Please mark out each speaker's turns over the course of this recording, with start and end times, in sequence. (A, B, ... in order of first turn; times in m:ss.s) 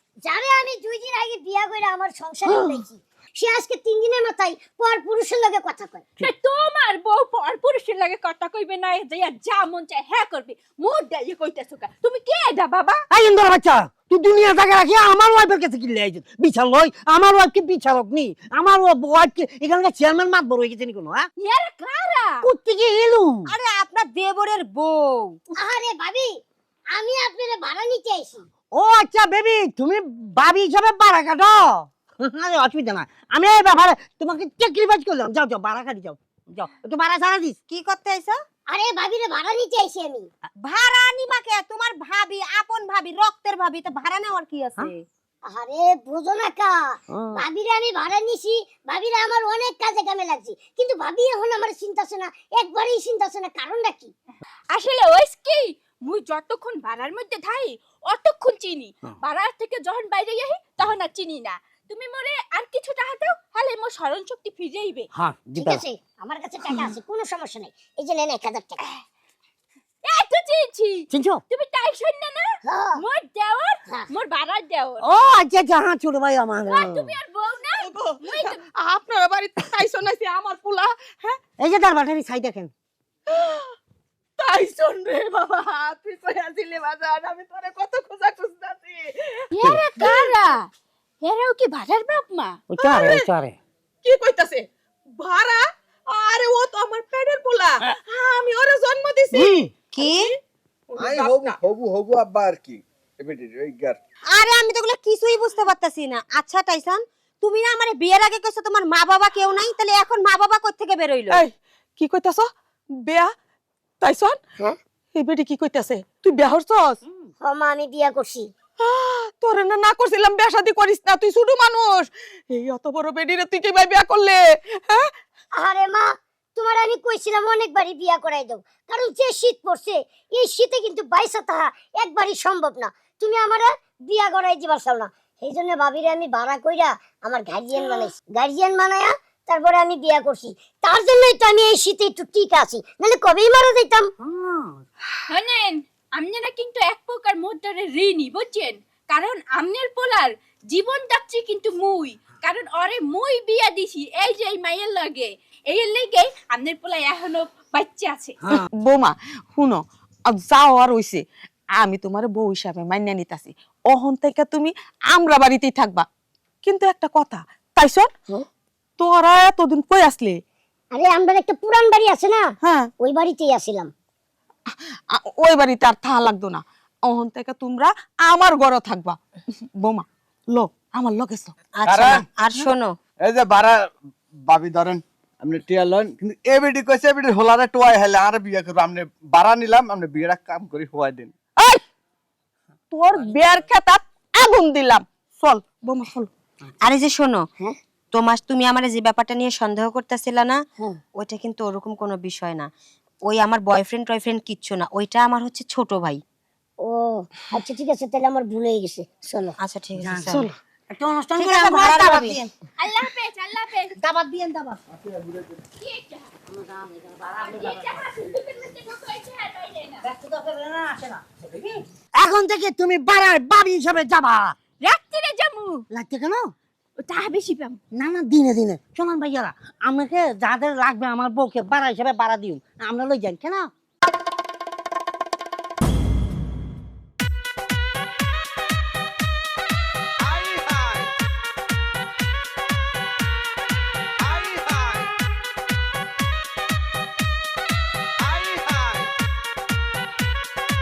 0:00.2-0:06.1 A
0:02.5-0:02.8 B
0:06.2-0:13.0 C
0:13.1-0:21.2 B
0:21.4-0:22.5 C
0:22.4-0:23.5 B
0:23.5-0:25.4 D
0:25.6-0:26.3 A
0:26.9-0:28.4 A
0:28.7-0:37.6 B
0:37.7-0:38.4 D
0:38.7-0:40.3 A
0:40.6-0:45.0 D
0:45.5-0:54.1 A
0:47.1-0:47.4 B
0:54.7-1:05.1 C
1:05.2-1:05.8 B
1:05.6-1:08.8 A
1:10.0-1:15.0 C
1:11.1-1:11.4 B
1:12.7-1:13.0 A
1:15.1-1:17.1 B
1:16.7-1:18.6 C
1:17.8-1:21.4 E
1:21.6-1:22.7 B
1:23.3-1:23.7 E
1:24.4-1:30.3 E
1:29.5-1:30.7 C
1:31.2-1:32.6 C
1:32.7-1:33.6 B
1:32.8-1:33.3 E
1:34.0-1:34.7 E
1:35.2-1:40.4 E
1:39.4-1:39.7 B
1:39.9-1:40.3 D
1:40.9-1:41.6 E
1:41.0-1:44.0 F
1:44.3-1:51.4 D
1:51.3-1:52.5 E
1:53.1-1:53.3 E
1:54.0-1:54.4 E
1:55.2-1:57.0 E
1:57.4-1:58.5 A
1:58.8-2:05.1 E
2:05.6-2:24.1 A
2:24.2-2:24.8 B
2:25.3-2:38.4 C
2:38.5-2:41.2 E
2:41.8-2:46.1 E
2:46.6-2:48.1 E
2:49.0-2:50.4 E
2:50.9-2:53.9 A
2:52.6-2:52.9 E
2:55.1-3:01.6 E
3:01.8-3:03.0 D
3:01.9-3:02.2 F
3:03.2-3:03.9 F
3:04.5-3:11.3 F
3:12.9-3:16.3 E
3:16.8-3:17.4 D
3:18.1-3:20.6 D
3:21.2-3:22.7 D
3:23.3-3:26.2 D
3:26.8-3:29.6 A
3:29.6-3:30.5 D
3:30.0-3:32.5 B
3:31.4-3:32.4 D
3:32.8-3:33.9 C
3:34.0-3:34.8 B
3:34.9-3:35.6 F
3:35.8-3:36.3 C
3:36.5-3:37.9 B
3:37.3-3:40.0 C
3:40.0-3:44.5 B
3:44.8-3:45.8 C
3:45.9-3:46.5 B
3:47.0-3:47.8 C
3:47.9-3:53.7 B
4:00.2-4:01.1 F
4:04.2-4:05.1 F
4:08.2-4:09.1 F